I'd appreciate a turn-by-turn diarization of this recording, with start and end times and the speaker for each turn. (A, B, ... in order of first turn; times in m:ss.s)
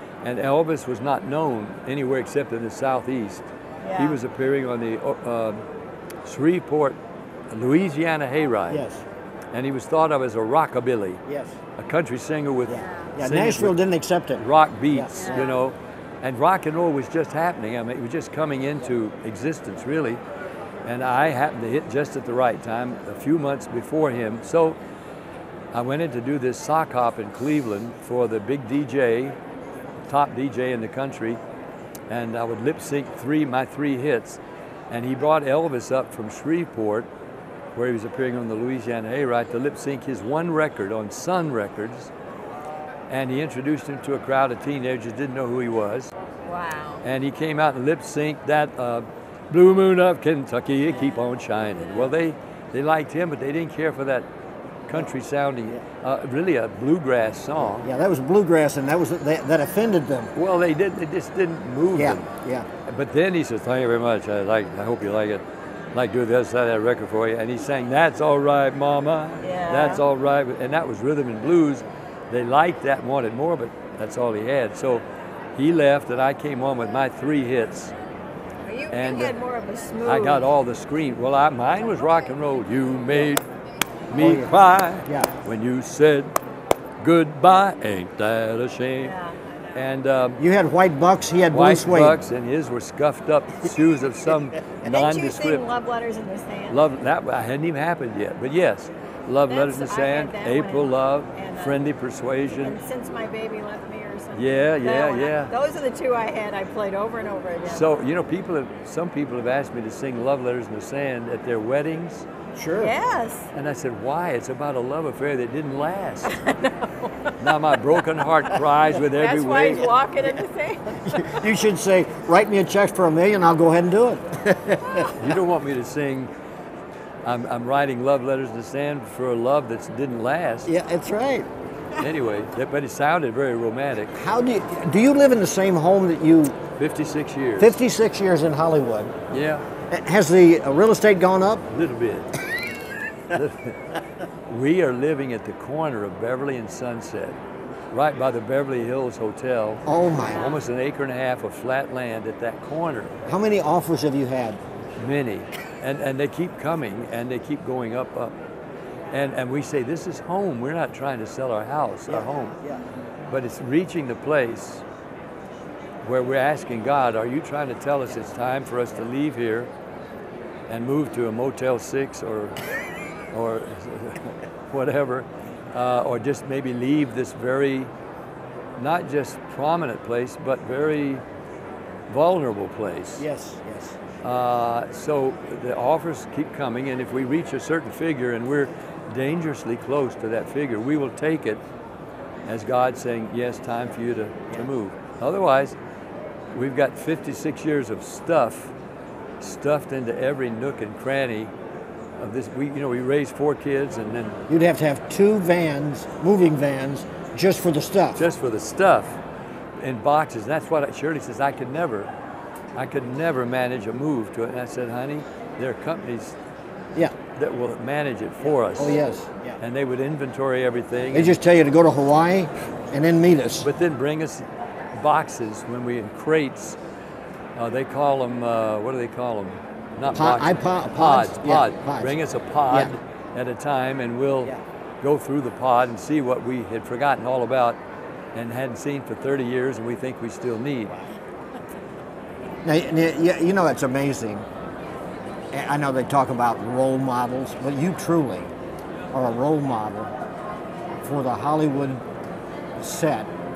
0:00.2-0:03.4 A
0:03.8-0:04.2 B
0:04.0-0:05.6 A
0:06.2-0:07.0 A
0:07.5-0:08.8 A
0:08.7-0:09.0 C
0:09.5-0:11.2 A
0:11.3-0:11.6 C
0:11.8-0:13.8 A
0:12.7-0:15.4 C
0:14.4-0:20.2 A
0:15.2-0:15.5 B
0:20.8-0:24.8 A
0:25.7-0:29.4 A
0:30.1-0:31.4 A
0:32.1-0:34.4 A
0:34.9-0:37.1 A
0:37.8-0:42.1 A
0:43.1-0:46.1 A
0:46.5-0:47.0 B
0:47.0-0:54.3 A
0:54.9-0:57.9 A
0:57.6-1:00.3 C
1:00.4-1:02.3 A
1:01.9-1:02.7 C
1:02.9-1:05.4 A
1:05.9-1:15.0 A
1:09.4-1:10.0 B
1:15.6-1:17.9 A
1:18.6-1:20.5 B
1:18.9-1:19.4 A
1:20.0-1:23.4 A
1:24.1-1:26.4 A
1:24.1-1:25.3 C
1:27.0-1:29.2 A
1:29.0-1:29.3 B
1:29.7-1:30.4 A
1:30.4-1:32.2 C
1:31.5-1:35.7 A
1:34.8-1:36.8 B
1:36.7-1:42.8 A
1:39.5-1:41.8 B
1:42.5-1:47.9 B
1:44.3-1:45.5 A
1:47.6-1:52.3 A
1:52.6-1:52.9 C
1:52.8-1:53.5 B
1:53.6-1:56.4 A
1:56.3-1:57.3 B
1:57.4-1:59.9 A
1:59.1-2:01.4 B
2:01.1-2:05.1 C
2:05.1-2:06.3 A
2:07.2-2:10.7 A
2:10.7-2:11.5 C
2:12.0-2:14.1 A
2:14.2-2:16.6 C
2:16.8-2:17.8 A
2:17.6-2:19.2 C
2:19.3-2:19.6 A
2:19.9-2:21.6 C
2:21.7-2:22.3 A
2:23.3-2:23.8 A
2:24.5-2:27.4 A
2:27.9-2:33.2 A
2:29.9-2:30.5 C
2:33.3-2:34.6 C
2:35.0-2:38.3 A
2:39.1-2:42.6 A
2:42.1-2:42.8 C
2:43.3-2:44.8 A
2:46.0-2:49.7 A
2:50.7-2:52.6 A
2:53.3-2:57.9 A
2:58.8-3:01.2 A
3:02.1-3:03.3 A
3:03.2-3:04.0 C
3:04.2-3:11.6 A
3:12.5-3:15.8 A
3:16.5-3:18.7 A
3:19.4-3:21.5 A
3:22.2-3:24.4 A
3:24.5-3:28.2 C
3:28.2-3:29.2 A
3:29.8-3:32.1 A
3:32.8-3:36.4 A
3:37.4-3:39.0 A
3:38.4-3:39.6 C
3:39.6-3:41.4 A
3:41.1-3:43.7 C
3:43.6-3:46.8 A
3:47.6-3:57.8 A
3:50.1-3:52.2 C
3:58.4-4:01.0 A
4:02.6-4:04.5 C
4:05.5-4:08.5 C
4:09.1-4:10.1 C
4:11.0-4:12.0 C
4:12.8-4:13.3 C